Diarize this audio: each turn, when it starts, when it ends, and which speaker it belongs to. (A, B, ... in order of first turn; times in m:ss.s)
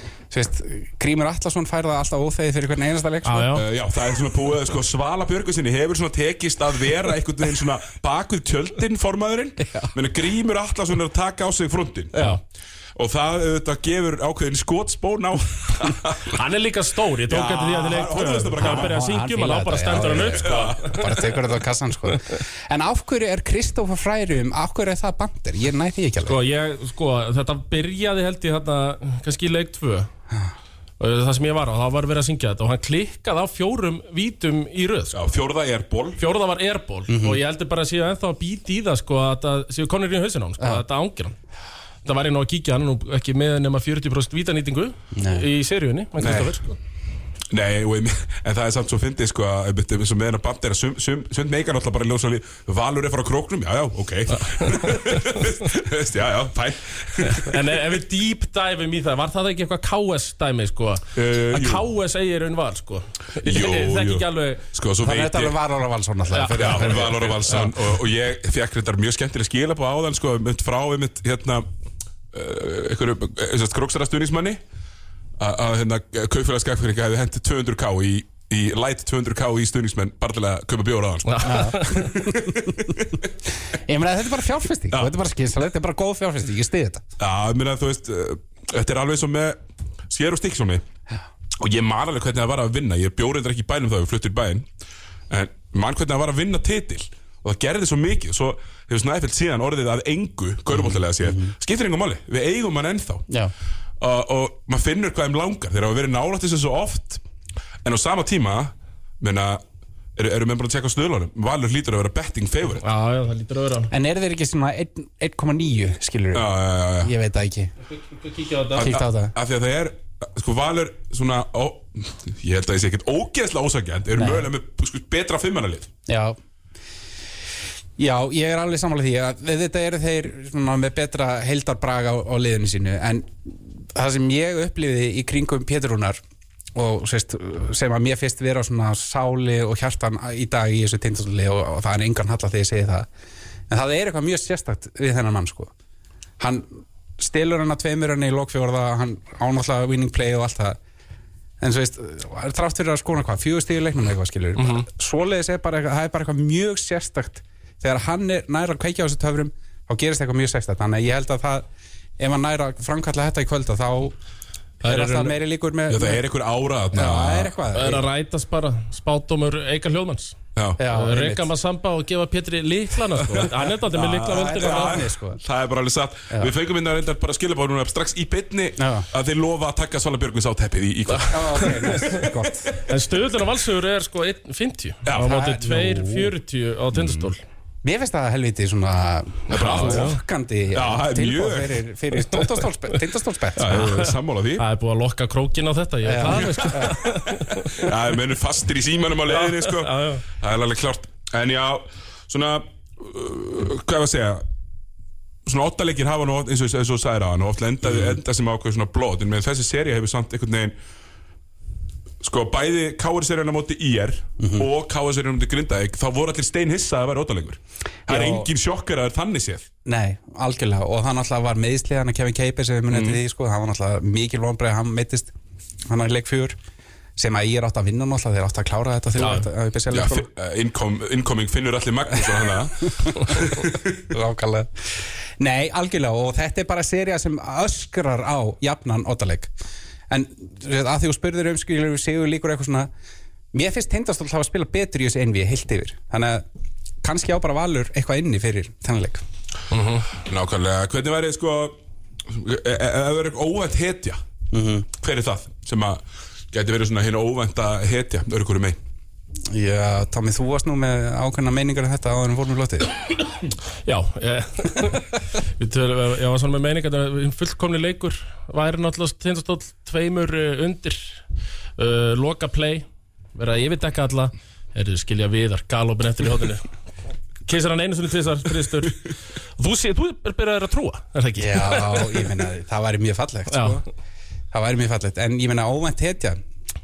0:00.3-0:03.6 A
0:03.2-0:03.6 B
0:03.5-0:12.4 C
0:12.1-0:12.4 B
0:13.0-0:16.4 C
0:16.2-0:21.0 B
0:17.3-0:19.0 C
0:18.6-0:26.4 A
0:20.2-0:21.4 C
0:26.2-0:30.1 B
0:31.0-0:35.2 B
0:35.1-0:36.2 C
0:36.2-0:41.4 B
0:37.1-0:37.4 A
0:42.0-0:46.7 B
0:45.1-0:45.5 A
0:46.2-0:46.5 C
0:47.5-0:57.5 C
0:54.6-0:55.4 B
0:57.2-1:04.6 B
1:01.1-1:01.8 C
1:03.4-1:05.6 C
1:05.0-1:07.4 A
1:06.3-1:07.6 B
1:06.6-1:11.6 C
1:12.3-1:14.6 C
1:15.4-1:23.1 C
1:21.3-1:22.1 B
1:21.4-1:22.9 A
1:23.7-1:27.0 A
1:27.2-1:29.6 C
1:30.1-1:30.8 C
1:31.6-1:34.6 C
1:35.3-1:43.2 C
1:40.8-1:41.5 A
1:44.0-1:47.2 C
1:47.8-1:49.6 C
1:50.2-1:52.8 C
1:52.8-1:53.9 B
1:53.9-1:56.5 A
1:56.3-1:57.1 C
1:57.0-1:57.7 A
1:57.9-1:58.9 B
1:58.7-2:05.9 C
1:58.8-1:59.3 A
2:04.1-2:04.4 A
2:06.1-2:06.4 A
2:08.0-2:16.2 A
2:16.7-2:23.1 A
2:23.7-2:25.7 A
2:26.4-2:30.8 A
2:31.6-2:41.6 A
2:34.6-2:34.8 B
2:42.2-2:44.2 A
2:44.8-2:45.3 B
2:44.8-2:46.2 A
2:45.9-2:47.5 C
2:46.9-2:48.0 A
2:47.7-2:55.0 B
2:50.5-2:50.8 C
2:50.8-2:51.5 A
2:53.9-2:55.4 A
2:54.3-3:02.8 C
2:58.8-2:59.1 A
3:01.2-3:02.7 A
3:02.8-3:07.4 B
3:05.0-3:05.4 C
3:05.2-3:06.3 A
3:06.9-3:07.3 C
3:07.8-3:14.0 A
3:09.5-3:10.2 B
3:09.5-3:10.1 C
3:10.7-3:11.8 C
3:13.6-3:14.6 C
3:13.7-3:17.9 B
3:16.0-3:17.0 A
3:16.3-3:17.0 C
3:17.6-3:24.4 C
3:19.3-3:20.2 B
3:25.4-3:30.7 C
3:27.9-3:28.2 A
3:32.2-3:39.7 C
3:34.4-3:34.7 A
3:38.1-3:38.5 A
3:39.8-3:45.3 A
3:42.9-3:43.2 C
3:45.9-3:46.5 A
3:47.2-3:50.3 A
3:49.2-3:49.4 B
3:49.9-3:54.0 C
3:52.2-3:53.5 A
3:54.1-3:59.5 A
4:00.1-4:02.9 A
4:03.5-4:06.4 A
4:07.0-4:09.2 A
4:09.7-4:10.0 B
4:10.1-4:14.2 C
4:14.5-4:14.9 A
4:14.9-4:16.0 C
4:16.5-4:18.8 C
4:19.5-4:22.9 A
4:23.8-4:31.2 B
4:31.8-4:36.7 B
4:37.4-4:42.1 B
4:41.4-4:43.8 A
4:43.5-4:43.8 B
4:44.5-4:46.4 A